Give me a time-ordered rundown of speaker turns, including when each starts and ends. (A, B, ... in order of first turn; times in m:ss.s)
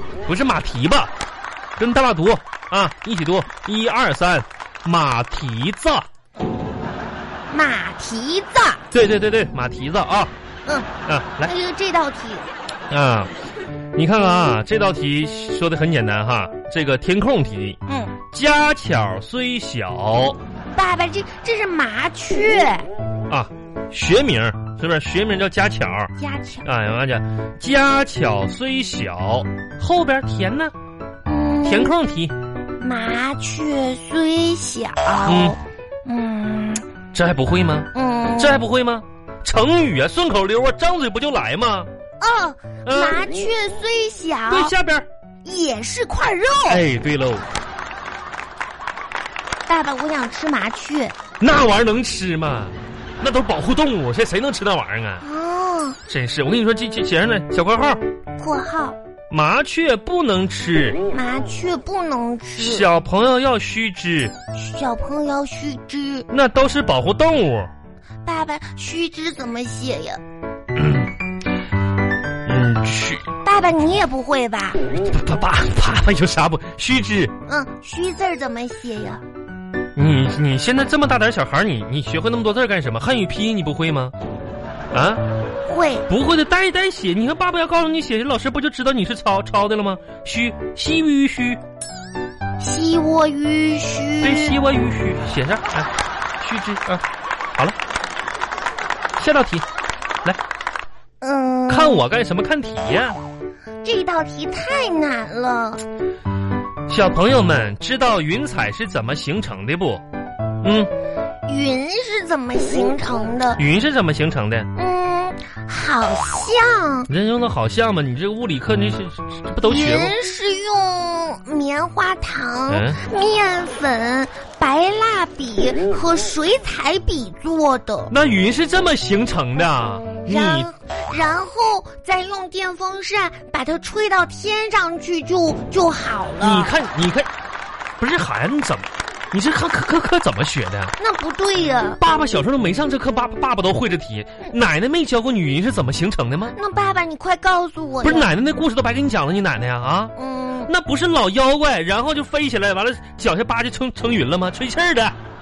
0:00.3-0:01.1 A
0:01.8-0:06.1 A
0:07.5-0:08.8 B
0:08.9-0:10.3 A
0:11.1-0:11.5 A
0:11.4-0:12.5 B
0:12.9-0:13.3 A
0:14.0-0:17.8 A
0:17.9-0:18.2 B
0:18.3-0:20.4 A
0:20.7-0:22.9 B
0:23.3-0:30.7 A
0:26.2-0:26.7 B
0:31.3-0:31.9 B
0:31.6-0:32.4 A
0:32.8-0:36.9 B
0:35.3-0:35.6 A
0:37.1-0:41.9 A
0:37.9-0:38.7 B
0:42.2-0:44.7 B
0:42.8-0:43.3 A
0:44.5-0:45.1 A
0:45.4-0:46.8 B
0:46.7-0:47.5 A
0:49.7-0:51.2 B
0:51.4-0:55.2 A
0:55.2-0:56.0 B
0:56.1-0:58.0 A
0:58.4-0:59.0 B
0:59.3-1:01.0 A
1:01.1-1:02.9 B
1:02.6-1:04.3 A
1:04.5-1:06.3 B
1:06.3-1:07.7 A
1:08.2-1:10.2 B
1:10.8-1:11.1 A
1:12.5-1:13.3 A
1:13.4-1:14.8 B
1:14.9-1:17.3 A
1:17.5-1:19.2 B
1:20.0-1:24.1 A
1:24.9-1:25.3 A
1:25.7-1:26.1 B
1:26.1-1:31.6 A
1:32.6-1:34.6 B
1:34.2-1:35.9 A
1:36.4-1:37.0 A
1:39.2-1:39.6 A
1:41.2-1:42.0 B
1:41.7-1:43.2 A
1:43.8-1:45.8 B
1:46.9-1:50.0 A
1:50.6-1:50.9 A
1:51.5-1:53.6 B
1:53.6-1:54.7 A
1:54.8-1:57.1 B
1:57.1-2:00.1 A
1:59.6-2:08.1 B
2:02.7-2:03.0 A
2:08.1-2:10.7 A
2:10.2-2:16.7 B
2:16.4-2:17.3 A
2:18.0-2:20.9 A
2:21.0-2:22.0 B
2:22.0-2:26.6 A
2:26.5-2:28.3 B
2:28.0-2:30.1 A
2:30.2-2:30.7 B
2:30.7-2:35.2 A